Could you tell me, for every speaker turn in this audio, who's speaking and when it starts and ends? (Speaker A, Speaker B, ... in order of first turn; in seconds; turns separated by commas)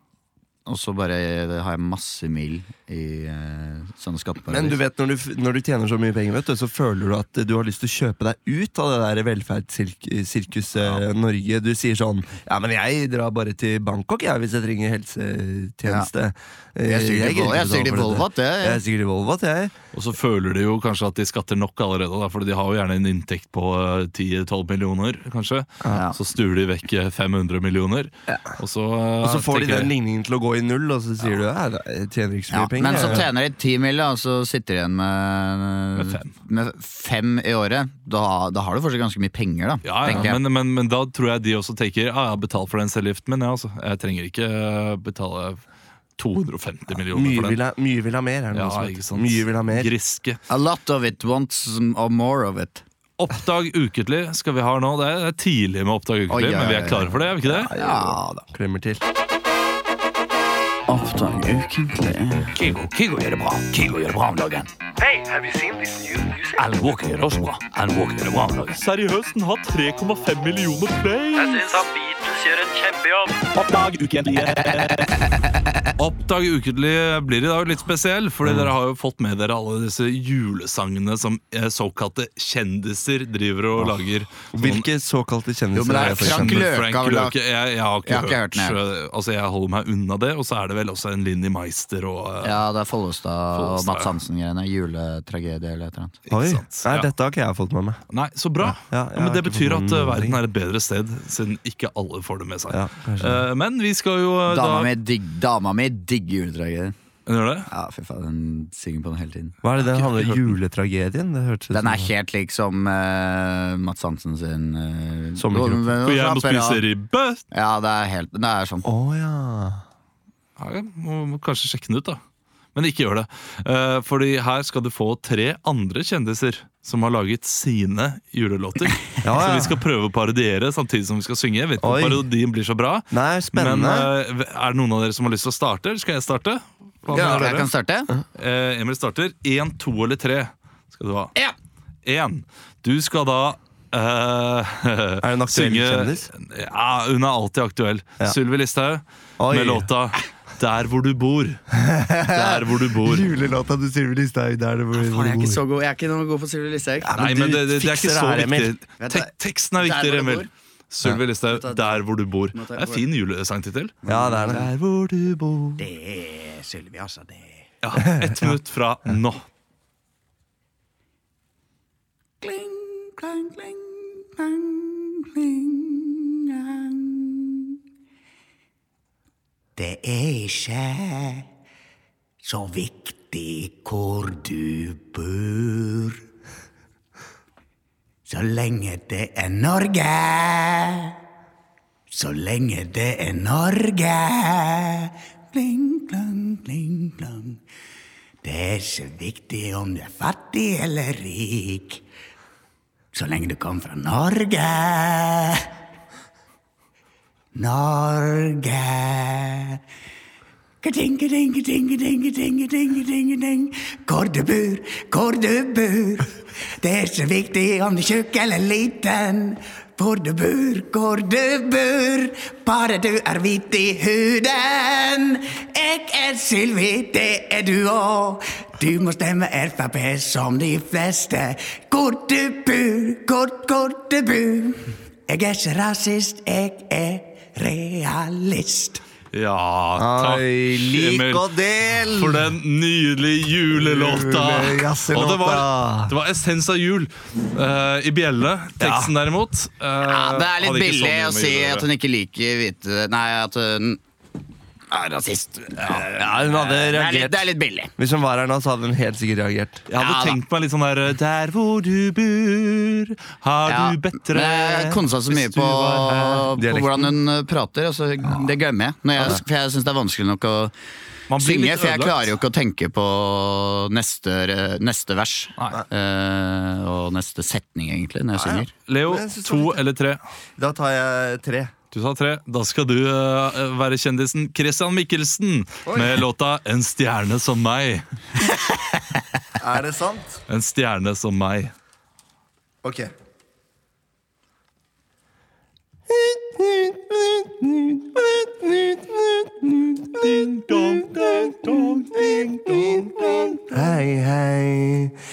Speaker A: 0.7-4.8, Speaker B: 4.5-19.7, Speaker A: 16.9-18.8, Speaker C: 19.9-29.9, Speaker A: 25.9-26.2, Speaker B: 29.2-33.3, Speaker A: 32.5-40.4, Speaker C: 33.0-33.2, Speaker C: 36.0-36.3, Speaker C: 39.8-45.6, Speaker B: 40.1-40.4, Speaker C: 46.2-47.6, Speaker B: 47.1-49.9, Speaker C: 48.5-50.4, Speaker A: 50.5-52.8, Speaker C: 53.2-57.7, Speaker A: 56.3-58.5, Speaker B: 57.7-59.0, Speaker A: 60.9-62.5, Speaker C: 62.6-63.7, Speaker D: 62.7-75.1, Speaker C: 66.6-71.9, Speaker C: 74.2-74.8, Speaker C: 76.0-84.9, Speaker B: 78.5-78.7, Speaker B: 84.5-86.7, Speaker A: 85.8-87.4, Speaker C: 86.0-92.6, Speaker A: 88.1-88.8, Speaker A: 92.4-96.2, Speaker C: 93.5-94.1, Speaker C: 96.3-97.1, Speaker B: 96.3-98.0, Speaker C: 98.1-104.9, Speaker B: 98.6-100.4, Speaker B: 102.7-103.5, Speaker A: 104.5-107.0, Speaker C: 107.3-107.7, Speaker A: 107.7-109.5, Speaker B: 109.6-112.1, Speaker C: 109.8-110.5, Speaker A: 111.7-116.8, Speaker B: 115.4-115.9, Speaker C: 116.0-117.4, Speaker A: 117.5-118.9, Speaker B: 118.8-119.8, Speaker C: 120.6-122.2, Speaker C: 122.8-137.7, Speaker B: 129.2-129.8, Speaker B: 131.8-132.2, Speaker B: 133.1-134.1, Speaker A: 137.1-138.1, Speaker B: 137.1-137.5, Speaker C: 138.3-141.3, Speaker C: 142.1-151.6, Speaker B: 145.2-146.3, Speaker B: 149.4-149.9, Speaker B: 151.7-155.6, Speaker C: 152.3-153.3, Speaker A: 154.9-157.1, Speaker B: 157.0-158.7, Speaker C: 157.2-165.8, Speaker A: 159.0-160.5, Speaker A: 161.5-162.0, Speaker A: 162.5-163.1, Speaker A: 164.1-164.6, Speaker B: 164.1-164.7, Speaker A: 165.8-167.6, Speaker C: 167.8-169.4, Speaker B: 168.0-168.6, Speaker A: 172.4-177.8, Speaker A: 179.8-181.5, Speaker A: 182.4-186.2, Speaker A: 188.3-191.2, Speaker A: 192.1-197.6, Speaker A: 198.4-202.0, Speaker A: 203.1-205.7, Speaker A: 207.6-209.8, Speaker A: 210.8-239.0, Speaker C: 239.3-241.5, Speaker B: 240.0-242.5, Speaker C: 242.0-251.9, Speaker B: 243.7-246.1, Speaker B: 248.8-249.1, Speaker A: 250.0-254.0, Speaker A: 254.9-257.9, Speaker B: 256.1-259.9, Speaker C: 259.9-266.5, Speaker A: 260.0-260.4, Speaker A: 263.7-270.7, Speaker B: 266.6-267.1, Speaker C: 271.3-272.3, Speaker A: 271.4-278.7, Speaker C: 275.6-275.8, Speaker B: 278.4-279.8, Speaker C: 278.9-280.2, Speaker B: 280.6-281.7, Speaker C: 281.9-288.1, Speaker B: 285.9-286.2, Speaker B: 289.6-290.4, Speaker C: 290.5-291.7, Speaker B: 292.8-293.1, Speaker B: 296.1-305.2, Speaker C: 300.2-303.8